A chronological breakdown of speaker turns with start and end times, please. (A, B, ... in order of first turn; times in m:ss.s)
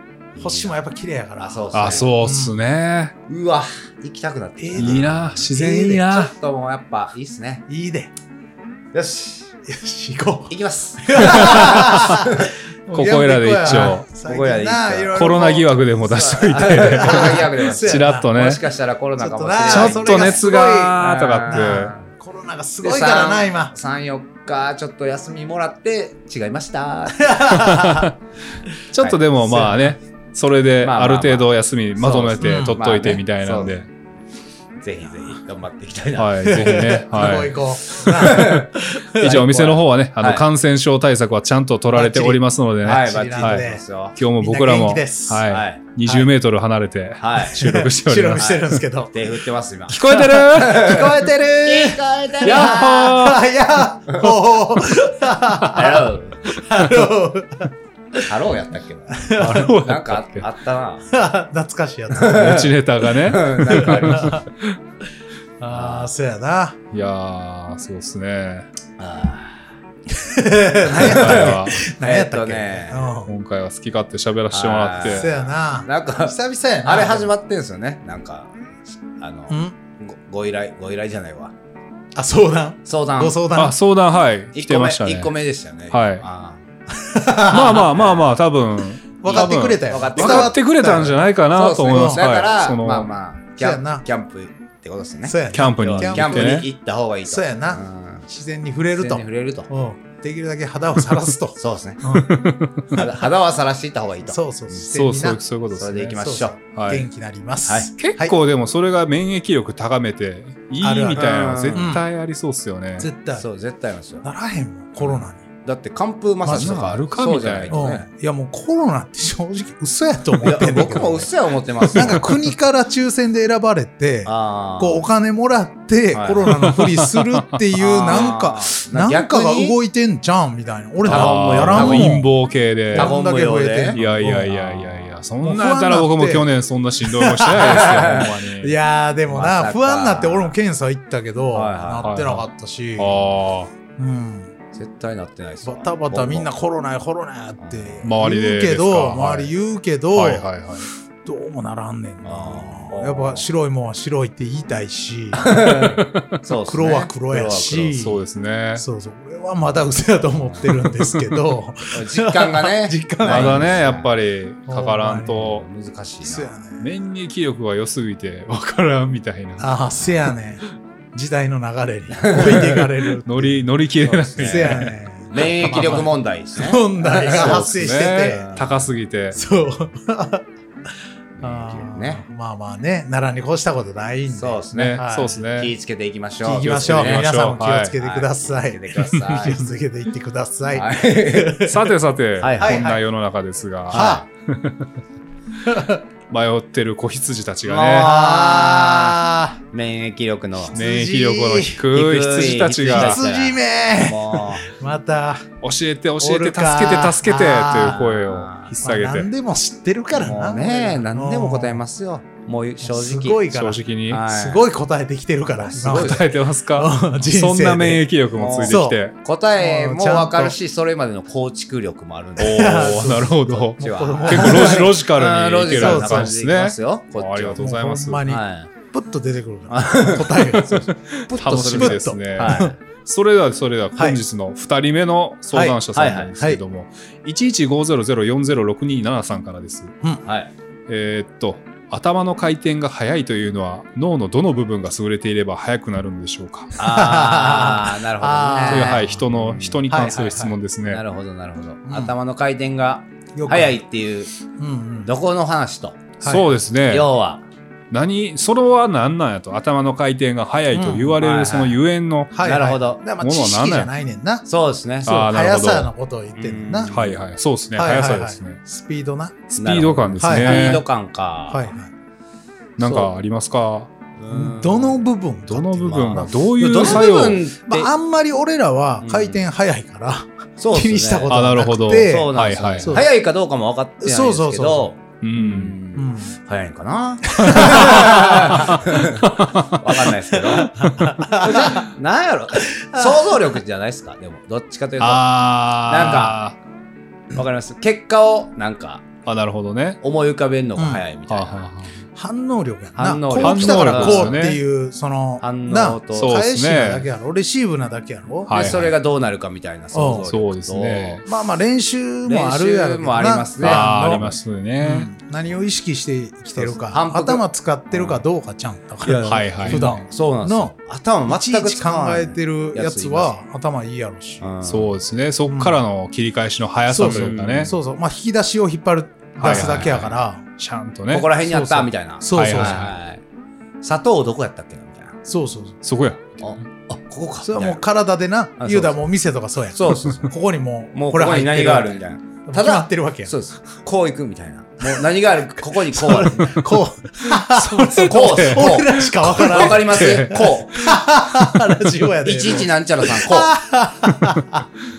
0:00.4-0:00.7 A
0:00.4-0:02.6 B
0:01.4-0:02.1 A
0:01.7-0:03.1 C
0:03.3-0:07.6 A
0:04.6-0:06.1 B
0:04.8-0:06.3 C
0:07.7-0:08.1 B
0:08.9-0:09.5 A
0:09.7-0:15.9 B
0:10.5-0:12.5 A
0:11.2-0:12.2 C
0:12.9-0:14.1 C
0:13.8-0:15.3 A
0:15.1-0:18.6 C
0:16.0-0:20.5 A
0:16.4-0:18.3 B
0:19.2-0:23.7 B
0:19.6-0:21.9 C
0:21.0-0:22.1 A
0:22.8-0:27.7 A
0:27.2-0:28.1 B
0:27.5-0:28.2 C
0:28.9-0:33.9 C
0:29.4-0:29.9 B
0:30.8-0:33.8 A
0:32.4-0:32.8 B
0:34.8-0:36.7 A
0:36.2-0:37.6 C
0:36.4-0:39.4 B
0:38.0-0:40.4 A
0:39.2-0:48.8 C
0:41.9-0:45.6 B
0:42.8-0:44.2 A
0:45.5-0:45.8 A
0:47.2-0:47.6 A
0:47.6-0:49.3 B
0:48.4-0:53.1 A
0:49.9-0:51.2 C
0:50.6-0:58.2 B
0:52.4-0:53.4 C
0:55.7-0:56.5 A
0:58.2-1:01.1 A
0:59.1-0:59.7 B
0:59.4-1:00.5 C
1:01.1-1:02.5 B
1:02.2-1:04.4 A
1:02.2-1:04.8 C
1:03.6-1:04.4 B
1:05.6-1:06.8 B
1:05.7-1:06.1 A
1:06.9-1:08.7 C
1:09.0-1:09.7 A
1:10.2-1:13.3 B
1:10.9-1:13.1 A
1:11.0-1:11.8 C
1:13.2-1:15.3 C
1:14.5-1:18.6 A
1:15.0-1:17.3 B
1:19.1-1:21.5 A
1:22.2-1:23.8 B
1:22.9-1:23.4 A
1:23.5-1:25.3 C
1:24.5-1:26.6 A
1:25.9-1:26.2 C
1:27.0-1:27.9 B
1:27.5-1:33.1 C
1:27.8-1:28.2 A
1:29.2-1:31.2 B
1:29.3-1:30.6 A
1:31.5-1:38.2 A
1:31.8-1:32.2 B
1:33.6-1:34.0 B
1:35.3-1:36.7 B
1:35.5-1:36.7 C
1:37.3-1:42.3 B
1:39.0-1:39.7 A
1:41.6-1:42.0 A
1:42.1-1:43.0 C
1:42.9-1:44.4 A
1:44.3-1:45.4 B
1:44.9-1:46.2 C
1:45.8-1:46.6 A
1:46.0-1:48.4 B
1:46.8-1:47.1 C
1:48.0-1:53.1 C
1:50.8-1:52.0 B
1:51.2-1:52.0 A
1:53.0-1:53.4 B
1:53.4-1:54.2 A
1:54.2-1:55.4 B
1:55.0-1:58.1 A
1:56.4-1:56.9 B
1:56.5-1:57.8 C
1:57.7-2:01.3 B
2:00.4-2:02.3 A
2:01.9-2:12.3 B
2:01.9-2:02.3 C
2:04.2-2:05.0 A
2:06.1-2:06.5 A
2:06.5-2:07.5 C
2:07.8-2:09.8 A
2:08.1-2:08.4 C
2:11.0-2:12.2 A
2:11.0-2:13.1 C
2:12.9-2:16.5 B
2:12.9-2:14.0 A
2:13.9-2:18.8 C
2:17.0-2:23.3 B
2:17.6-2:18.3 A
2:19.3-2:20.6 A
2:21.5-2:22.1 A
2:22.0-2:23.7 C
2:24.0-2:24.5 B
2:24.7-2:26.5 A
2:25.6-2:30.5 B
2:27.6-2:28.0 A
2:28.0-2:29.5 C
2:30.1-2:30.9 C
2:31.2-2:35.6 B
2:32.2-2:33.4 A
2:35.3-2:38.1 A
2:36.0-2:36.2 C
2:36.7-2:38.2 B
2:38.0-2:38.8 C
2:38.8-2:43.9 B
2:40.8-2:41.4 C
2:41.9-2:44.1 A
2:43.2-2:45.7 C
2:44.7-2:45.5 B
2:45.4-2:46.5 A
2:46.2-2:46.9 B
2:46.8-2:49.7 C
2:49.6-2:53.7 B
2:52.1-2:52.8 A
2:53.2-2:54.9 C
2:54.0-2:58.9 A
2:54.4-2:58.5 B
2:57.2-2:59.4 C
2:59.3-3:00.4 B
3:01.4-3:02.2 A
3:01.4-3:05.4 B
3:04.3-3:07.3 A
3:04.7-3:05.7 C
3:06.4-3:11.8 B
3:06.6-3:08.0 C
3:08.0-3:09.7 A
3:10.7-3:11.6 A
3:11.7-3:14.9 C
3:12.4-3:12.9 A
3:12.6-3:13.0 B
3:13.9-3:14.3 A
3:13.9-3:14.3 B
3:15.6-3:16.0 B
3:16.3-3:18.1 C
3:17.6-3:19.2 A
3:18.0-3:19.6 B
3:19.7-3:20.8 A
3:20.7-3:21.8 B
3:20.8-3:23.2 C
3:21.9-3:24.7 A
3:22.9-3:25.5 B
3:25.6-3:29.3 C
3:26.2-3:28.0 B
3:27.8-3:28.7 A
3:28.8-3:31.8 B
3:30.1-3:33.4 A
3:32.8-3:38.0 B
3:33.5-3:34.2 C
3:34.1-3:34.6 A
3:35.6-3:36.3 A
3:35.8-3:39.2 C
3:38.4-3:47.6 A
3:38.6-3:39.0 B
3:39.6-3:40.6 B
3:42.4-3:48.3 C
3:42.4-3:44.9 B
3:45.7-3:46.4 B
3:47.6-3:50.9 B
3:48.3-3:48.7 A
3:49.7-3:52.8 A
3:51.1-3:59.9 C
3:51.6-3:52.7 B
3:55.5-3:56.6 B
3:55.9-3:56.4 A
4:00.2-4:00.5 A
4:00.9-4:06.8 C
4:06.8-4:09.8 A
4:06.8-4:09.2 B
4:08.7-4:11.0 C
4:09.9-4:10.6 B
4:10.9-4:14.3 A
4:11.9-4:12.1 B
4:13.4-4:13.8 B
4:14.6-4:15.1 B
4:15.0-4:16.1 A
4:16.2-4:16.5 B
4:16.2-4:17.1 C
4:16.9-4:17.4 A
4:17.9-4:22.3 C
4:20.7-4:21.2 B
4:21.2-4:21.8 A
4:22.3-4:24.5 B
4:22.4-4:23.0 A
4:23.2-4:23.9 C
4:24.5-4:25.2 A
4:25.0-4:27.0 B
4:25.1-4:25.9 C
4:26.4-4:27.2 A
4:26.9-4:28.6 C
4:27.8-4:29.4 B
4:29.5-4:30.8 C
4:29.6-4:31.7 A
4:30.2-4:30.8 B
4:31.5-4:31.9 B
4:32.8-4:33.9 C
4:32.8-4:33.1 A
4:34.2-4:35.0 A
4:34.3-4:37.1 B
4:35.5-4:37.4 C
4:35.9-4:37.9 A
4:37.6-4:43.1 B
4:39.0-4:39.4 A
4:40.6-4:41.4 A
4:41.3-4:43.0 C
4:42.0-4:55.3 A
4:44.0-4:44.9 B
4:45.2-4:45.7 C
4:46.0-4:46.4 B
4:47.3-4:48.8 B
4:47.4-4:50.0 C
4:50.6-4:51.9 B
4:50.8-4:51.2 C
4:52.6-4:53.6 B
4:55.0-4:56.6 C
4:55.9-4:56.4 A
4:57.3-4:59.1 A
4:59.2-5:00.0 C
5:00.0-5:01.7 A
5:00.8-5:01.0 B
5:01.3-5:02.0 C
5:02.2-5:08.8 B
5:03.0-5:04.4 A
5:03.4-5:04.6 C
5:05.4-5:06.3 A
5:06.1-5:07.1 C
5:08.5-5:08.9 C
5:08.5-5:11.2 A
5:09.9-5:10.3 B
5:10.3-5:11.2 C
5:11.3-5:20.7 B
5:12.3-5:14.3 A
5:13.6-5:15.1 C
5:16.6-5:18.2 A
5:19.0-5:23.4 A
5:19.2-5:20.0 C
5:21.3-5:24.5 B
5:24.4-5:25.0 A
5:24.6-5:27.7 C
5:25.5-5:25.8 B
5:26.9-5:30.4 B
5:27.0-5:27.7 A
5:29.4-5:31.3 C
5:29.4-5:30.1 A
5:31.1-5:33.2 A
5:31.4-5:32.9 B
5:32.3-5:32.9 C
5:33.8-5:35.2 A
5:35.3-5:35.8 B
5:35.8-5:36.4 C
5:36.4-5:37.8 A
5:37.4-5:43.3 B
5:38.6-5:39.0 A
5:39.7-5:40.3 A
5:40.9-5:46.6 A
5:45.9-5:54.6 B
5:47.2-5:50.6 C
5:48.0-5:51.0 A
5:51.4-5:51.7 C
5:52.2-5:53.5 A